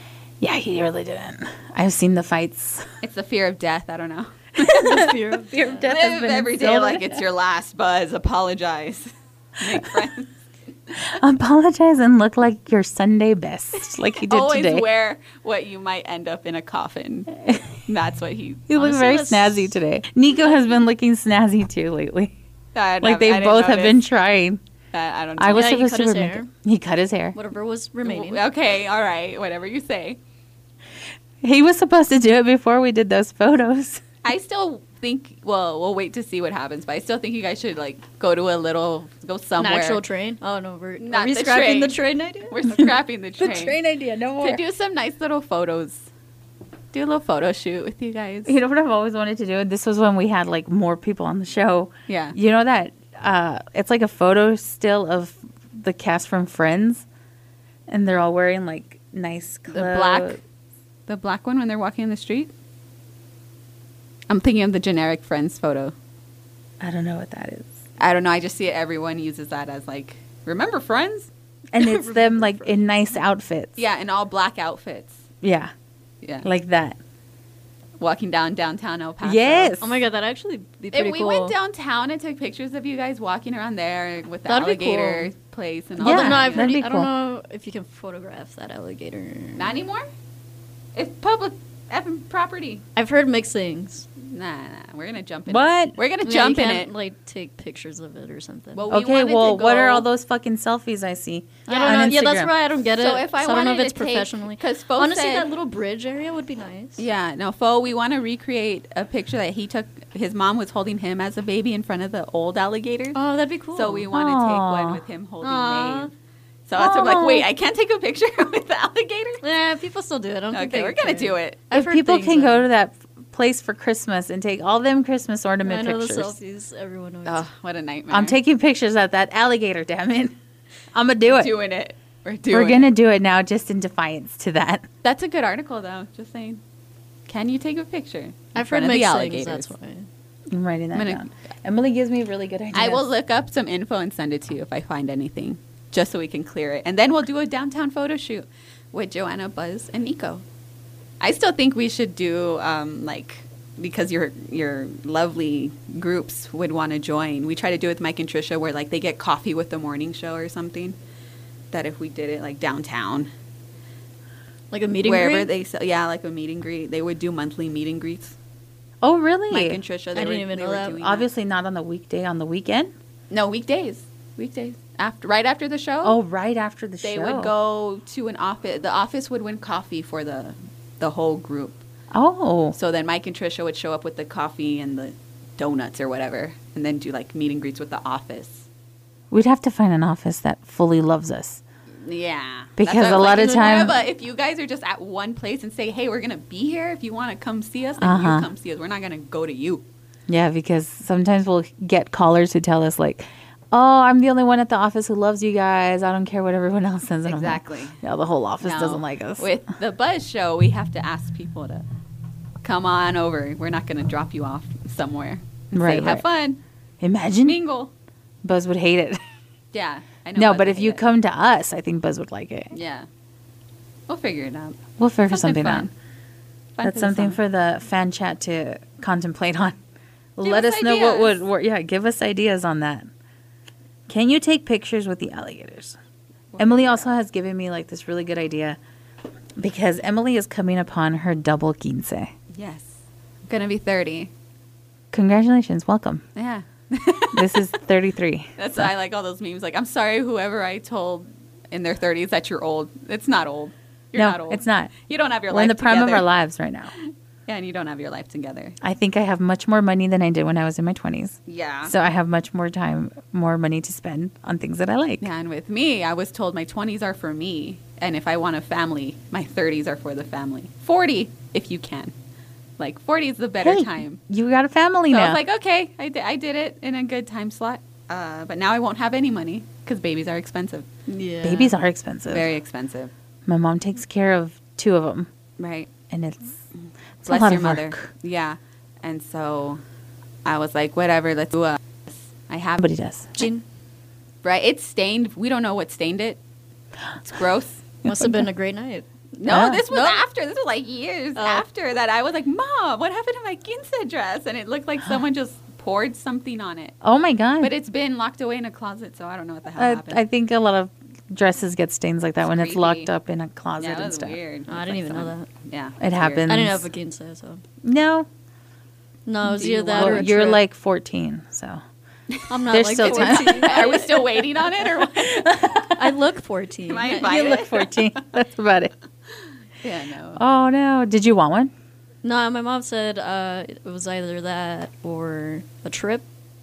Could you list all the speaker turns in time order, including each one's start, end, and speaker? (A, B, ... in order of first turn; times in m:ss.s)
0:00.4-0:02.9 A
0:03.0-0:05.0 B
0:04.6-0:07.2 A
0:04.8-0:05.8 C
0:05.8-0:10.3 B
0:11.1-0:14.9 A
0:13.9-0:18.7 B
0:18.7-0:22.3 A
0:18.8-0:19.7 C
0:22.7-0:24.0 B
0:23.0-0:24.6 A
0:24.9-0:25.7 B
0:25.4-0:27.4 A
0:25.5-0:26.5 C
0:27.3-0:28.4 C
0:28.0-0:30.2 B
0:31.4-0:34.0 A
0:34.2-0:40.0 B
0:39.6-0:42.9 C
0:41.0-0:43.8 B
0:43.4-0:44.6 A
0:44.4-0:46.1 B
0:46.9-0:48.6 B
0:48.5-0:57.0 A
0:52.1-0:52.4 B
0:57.9-1:00.4 A
0:59.7-1:00.4 B
1:01.1-1:02.5 B
1:04.3-1:05.9 B
1:06.8-1:07.7 A
1:08.0-1:11.3 B
1:11.7-1:13.8 A
1:11.8-1:12.7 C
1:13.8-1:15.2 B
1:15.4-1:15.7 A
1:16.4-1:17.0 A
1:18.0-1:19.8 B
1:19.2-1:20.0 A
1:19.8-1:21.6 C
1:20.9-1:26.7 B
1:24.5-1:25.3 C
1:26.0-1:29.7 C
1:26.0-1:27.1 A
1:29.6-1:30.1 B
1:30.9-1:32.8 B
1:33.0-1:34.1 C
1:34.2-1:36.9 B
1:35.5-1:35.9 A
1:36.2-1:38.8 C
1:38.7-1:40.1 B
1:38.9-1:42.5 A
1:41.7-1:47.0 C
1:41.7-1:42.2 B
1:42.9-1:45.5 B
1:47.0-1:53.2 B
1:53.1-1:54.1 C
1:53.7-1:56.1 B
1:54.1-1:55.0 A
1:55.4-1:56.1 C
1:56.7-1:59.4 B
1:56.8-1:57.5 A
1:59.4-2:02.6 C
2:00.5-2:01.6 B
2:01.7-2:06.3 A
2:05.6-2:07.4 C
2:07.2-2:08.4 B
2:08.1-2:10.3 A
2:10.9-2:11.5 A
2:11.2-2:12.9 B
2:12.5-2:14.9 A
2:15.0-2:16.6 B
2:17.3-2:19.7 B
2:18.5-2:20.1 C
2:20.5-2:23.1 A
2:20.9-2:21.2 B
2:22.7-2:30.4 B
2:31.2-2:41.0 B
2:41.7-2:43.3 B
2:44.7-2:45.5 C
2:45.0-2:48.4 B
2:49.0-2:49.8 A
2:49.5-2:51.2 B
2:50.1-2:51.0 C
2:50.9-2:52.9 A
2:53.3-2:56.2 B
2:56.0-2:57.5 A
2:57.0-3:01.8 B
3:02.1-3:02.8 A
3:02.7-3:08.6 B
3:09.3-3:11.6 A
3:12.0-3:19.8 B
3:12.8-3:14.0 A
3:18.0-3:18.5 A
3:20.3-3:29.5 A
3:27.3-3:28.0 B
3:28.6-3:31.8 B
3:32.6-3:36.6 B
3:35.7-3:36.2 A
3:37.0-3:37.6 A
3:37.4-3:37.9 B
3:38.4-3:39.2 A
3:39.7-3:41.0 B
3:40.4-3:42.7 A
3:42.7-3:43.1 B
3:44.1-3:45.9 B
3:45.0-3:45.9 A
3:46.8-3:47.4 B
3:46.8-3:49.8 A
3:50.4-3:53.1 A
3:50.4-3:51.4 B
3:54.1-3:56.0 A
3:56.5-3:57.1 B
3:56.6-3:58.8 A
3:59.6-4:02.3 A
4:02.5-4:04.3 B
4:05.1-4:06.2 A
4:06.3-4:07.7 B
4:07.3-4:08.9 A
4:08.6-4:16.3 B
4:14.1-4:14.9 A
4:15.5-4:16.9 A
4:17.0-4:18.8 B
4:18.8-4:25.3 A
4:21.4-4:21.9 B
4:25.2-4:32.1 B
4:32.8-4:34.2 B
4:33.6-4:35.4 A
4:35.1-4:41.0 B
4:41.1-4:41.7 C
4:41.4-4:42.5 A
4:42.3-4:43.1 B
4:43.4-4:45.3 A
4:45.6-4:45.9 B
4:46.1-4:46.6 A
4:47.2-4:48.1 A
4:47.2-4:49.8 B
4:50.4-4:52.8 B
4:52.8-4:53.4 A
4:53.4-4:53.6 C
4:54.4-4:56.4 B
4:57.2-4:57.8 B
4:58.0-4:58.5 A
4:58.0-4:59.1 C
4:59.4-5:07.0 B
4:59.4-5:00.2 A
5:01.4-5:01.6 C
5:07.0-5:07.7 A
5:07.6-5:10.2 B
5:09.8-5:14.4 A
5:12.4-5:13.1 B
5:13.8-5:16.6 B
5:14.7-5:15.5 C
5:16.0-5:16.9 A
5:16.4-5:17.6 C
5:17.8-5:18.3 A
5:19.2-5:20.6 C
5:19.4-5:20.4 B
5:19.9-5:21.8 A
5:22.3-5:25.9 B
5:22.5-5:24.4 C
5:22.7-5:24.0 A
5:25.2-5:26.0 A
5:26.0-5:27.4 C
5:26.9-5:28.2 B
5:27.2-5:28.9 A
5:29.8-5:30.4 B
5:30.4-5:31.7 A
5:32.2-5:36.2 C